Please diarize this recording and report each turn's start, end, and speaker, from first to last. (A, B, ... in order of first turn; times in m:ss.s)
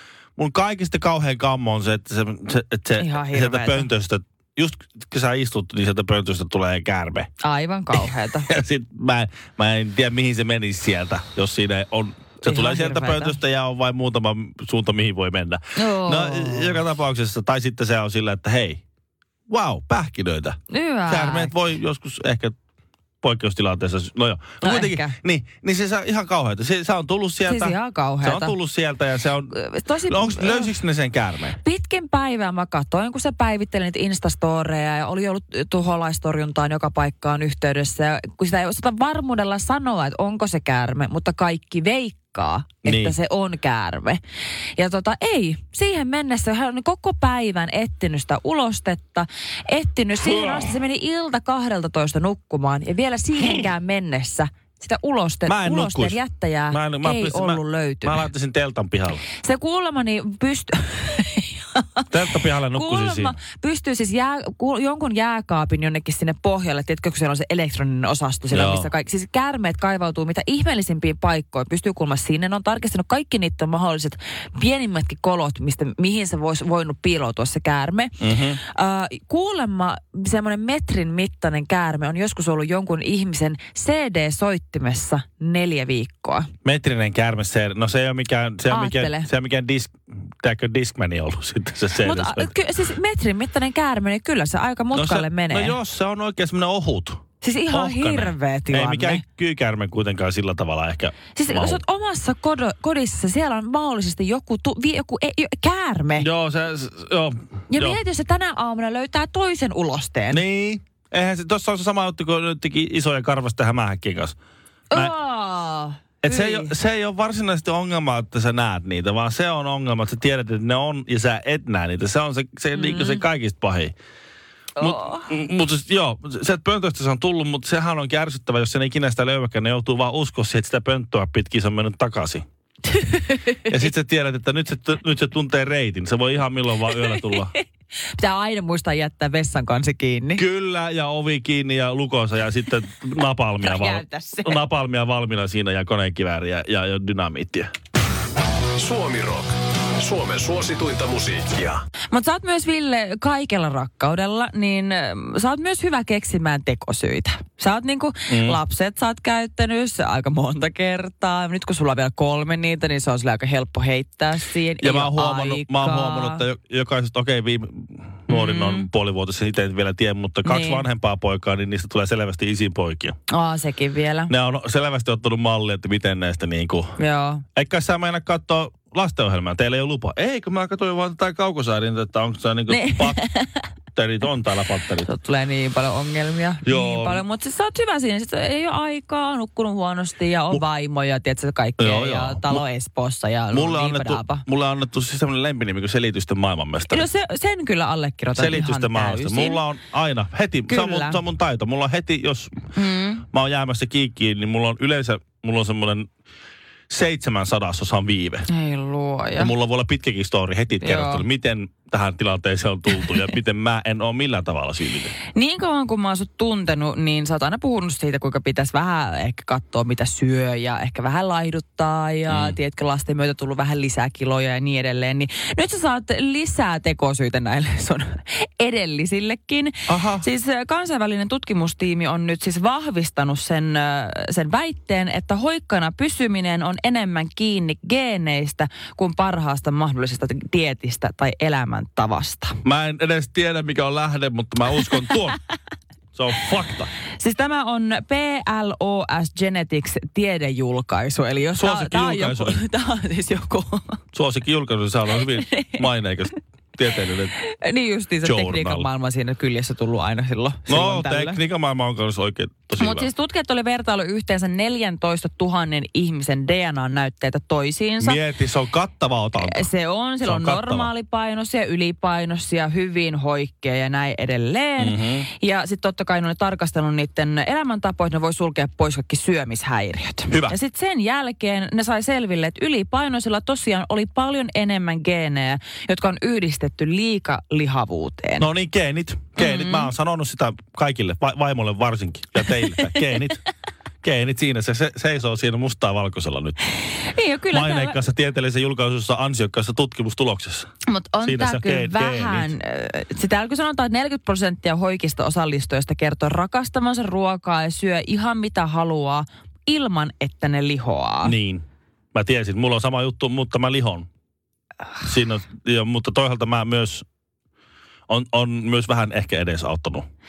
0:00.4-0:07.3 A
0:03.0-0:03.9 B
0:07.4-0:08.5 B
0:07.9-0:18.8 A
0:12.4-0:13.4 B
0:15.8-0:16.8 B
0:19.5-0:22.6 A
0:20.7-0:21.5 B
0:23.2-0:29.6 A
0:24.6-0:25.2 B
0:27.4-0:28.6 B
0:29.5-0:30.7 B
0:30.1-0:31.6 A
0:31.6-0:44.2 B
0:42.8-0:43.2 A
0:44.8-0:58.3 B
0:50.2-0:50.7 A
0:55.5-0:56.2 A
0:56.7-0:59.2 A
0:59.3-1:02.1 B
1:02.1-1:03.4 A
1:02.7-1:26.5 B
1:08.5-1:08.9 A
1:18.2-1:18.6 A
1:26.6-1:32.5 A
1:28.7-1:29.3 B
1:32.0-1:35.8 B
1:34.9-1:41.8 A
1:37.4-1:39.2 B
1:41.4-1:46.3 B
1:46.2-1:48.0 A
1:47.7-1:50.4 B
1:50.3-1:54.4 A
1:54.9-1:56.7 B
1:56.2-2:04.0 A
2:02.7-2:03.2 B
2:04.8-2:05.3 B
2:04.8-2:12.4 A
2:12.9-2:13.9 B
2:13.7-2:17.5 A
2:16.9-2:17.6 B
2:18.2-2:20.4 B
2:20.4-2:27.7 A
2:23.6-2:24.6 B
2:28.8-2:31.8 C
2:32.1-2:46.4 B
2:38.3-2:38.6 A
2:44.8-2:53.2 A
2:48.3-2:48.9 B
2:50.4-2:50.9 B
2:53.3-2:54.3 B
2:54.3-2:57.0 A
2:57.0-2:57.4 B
2:57.6-3:03.2 A
3:02.7-3:03.7 B
3:04.0-3:05.1 A
3:05.0-3:14.4 B
3:06.6-3:07.2 A
3:11.8-3:12.6 A
3:13.5-3:17.1 A
3:16.9-3:19.6 B
3:18.4-3:22.6 A
3:20.7-3:21.2 B
3:22.8-3:23.2 B
3:23.3-3:26.1 A
3:26.9-3:28.5 A
3:28.5-3:29.5 B
3:29.4-3:35.1 A
3:30.8-3:31.2 B
3:35.3-4:02.6 B
3:42.3-3:42.6 A
3:49.9-3:50.3 A
4:02.6-4:05.4 A
4:06.1-4:06.9 A
4:07.2-4:14.0 B
4:11.6-4:12.6 A
4:14.1-4:17.3 A
4:15.1-4:15.9 B
4:17.4-4:21.4 B
4:18.2-4:18.9 A
4:20.7-4:23.1 A
4:22.8-4:28.2 B
4:28.0-4:29.7 A
4:29.4-4:48.5 B
4:30.2-4:30.9 A
4:34.8-4:35.3 A
4:40.3-4:40.6 A
4:48.4-4:53.4 A
4:49.4-4:49.9 B
4:52.4-4:53.3 B
4:54.0-4:56.6 A
4:57.0-4:58.0 B
4:57.5-5:00.7 A
5:00.9-5:11.4 B
5:01.2-5:02.5 A
5:11.2-5:14.1 A
5:15.0-5:17.0 A
5:18.1-5:20.0 A